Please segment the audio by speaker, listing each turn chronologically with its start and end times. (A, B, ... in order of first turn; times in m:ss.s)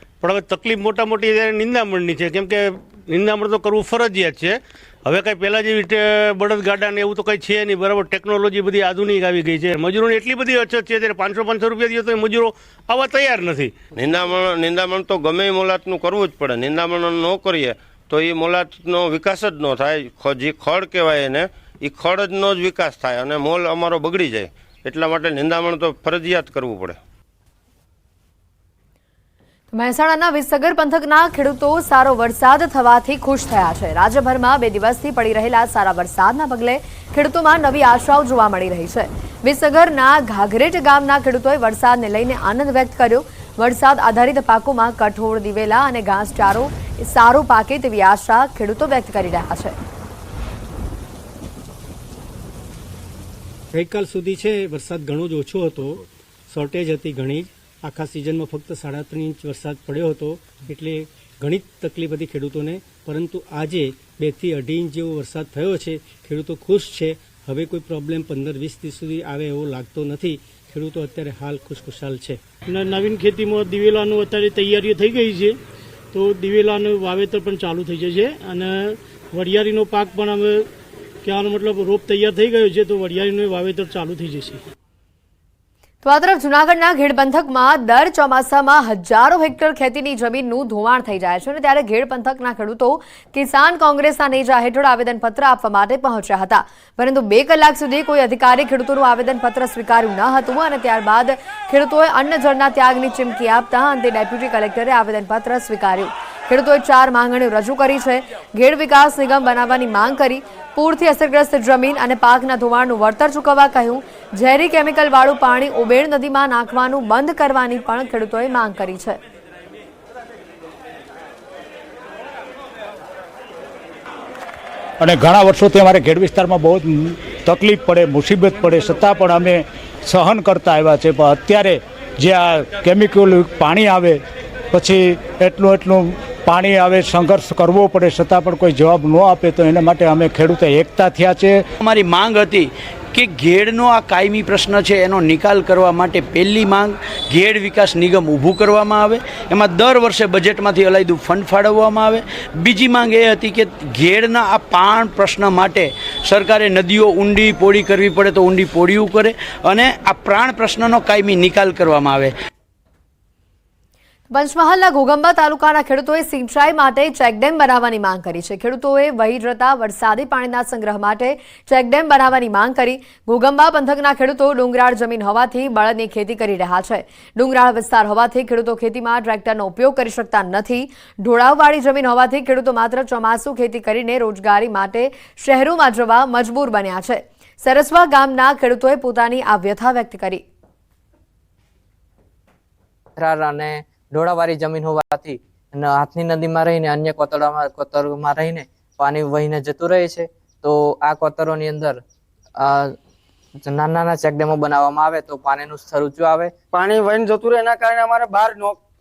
0:00.2-0:13.8 A
0:14.0-0:27.0 B
0:29.7-0:49.8 C
0:53.7-1:12.4 D
1:12.7-1:15.6 E
1:16.1-1:20.7 E
1:21.2-1:24.6 E
1:26.0-1:59.2 C
2:05.0-2:14.2 F
2:14.7-2:21.6 F
2:21.8-2:42.3 G
2:44.3-3:10.4 C
3:13.2-3:22.0 H
3:23.6-3:26.5 H
3:26.7-3:28.8 I